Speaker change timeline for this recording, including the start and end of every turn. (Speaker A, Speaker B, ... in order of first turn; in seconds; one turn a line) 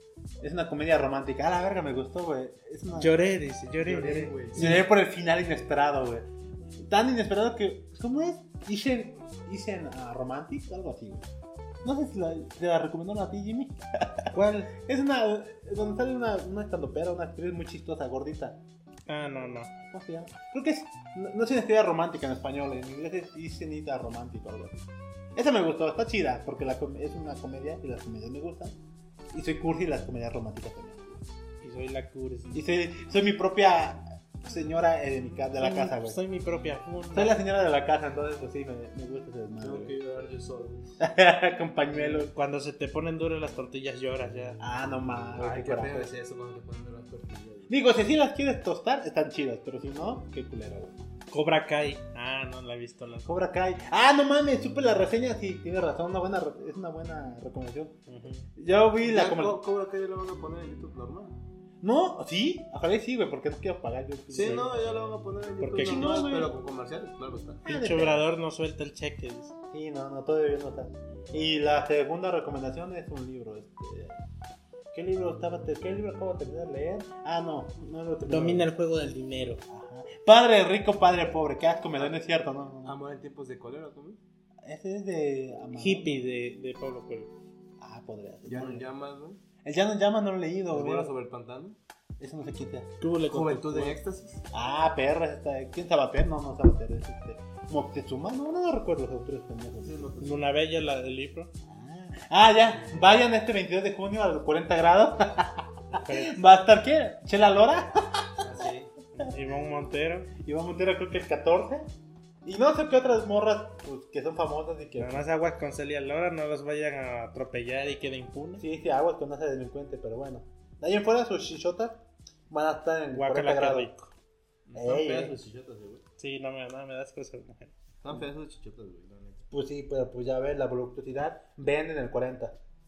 Speaker A: 0.4-3.2
Speaker B: 2.9-4.8
Speaker C: 3.8-4.7
Speaker A: 4.5-6.3
Speaker A: 6.8-11.3
Speaker A: 11.8-18.6
Speaker B: 14.3-14.7
Speaker B: 19.1-19.7
Speaker A: 19.8-28.8
Speaker A: 29.3-31.3
Speaker B: 31.6-32.6
Speaker A: 32.5-36.2
Speaker B: 35.6-37.4
Speaker A: 37.1-40.0
Speaker C: 39.6-41.0
Speaker A: 41.0-42.3
Speaker B: 41.9-44.6
Speaker A: 44.6-46.1
Speaker C: 45.4-47.8
Speaker A: 47.7-50.9
Speaker B: 51.3-53.4
Speaker A: 53.3-58.0
Speaker B: 58.1-58.5
Speaker A: 58.5-59.6
Speaker C: 59.0-61.4
Speaker A: 61.8-64.8
Speaker C: 64.3-67.6
Speaker B: 65.6-66.1
Speaker A: 65.8-66.5
Speaker A: 67.7-68.2
Speaker B: 67.7-69.5
Speaker A: 69.7-74.2
Speaker A: 74.9-78.7
Speaker B: 78.3-79.6
Speaker A: 79.7-83.0
Speaker C: 82.8-84.2
Speaker A: 84.6-86.1
Speaker B: 85.8-87.3
Speaker A: 87.8-88.9
Speaker C: 88.5-89.4
Speaker A: 89.6-91.1
Speaker C: 90.7-91.8
Speaker A: 92.2-92.9
Speaker B: 93.0-94.0
Speaker C: 93.3-94.5
Speaker A: 94.5-100.1
Speaker C: 99.8-100.4
Speaker B: 100.2-101.5
Speaker A: 101.7-108.4
Speaker B: 105.9-106.4
Speaker C: 108.4-108.9
Speaker B: 109.2-110.3
Speaker A: 110.4-111.9
Speaker A: 112.5-115.2
Speaker B: 115.0-118.7
Speaker A: 118.6-123.9
Speaker B: 123.1-124.1
Speaker C: 124.7-126.0
Speaker A: 124.7-125.4
Speaker B: 126.2-127.8
Speaker C: 128.0-129.5
Speaker A: 129.5-132.6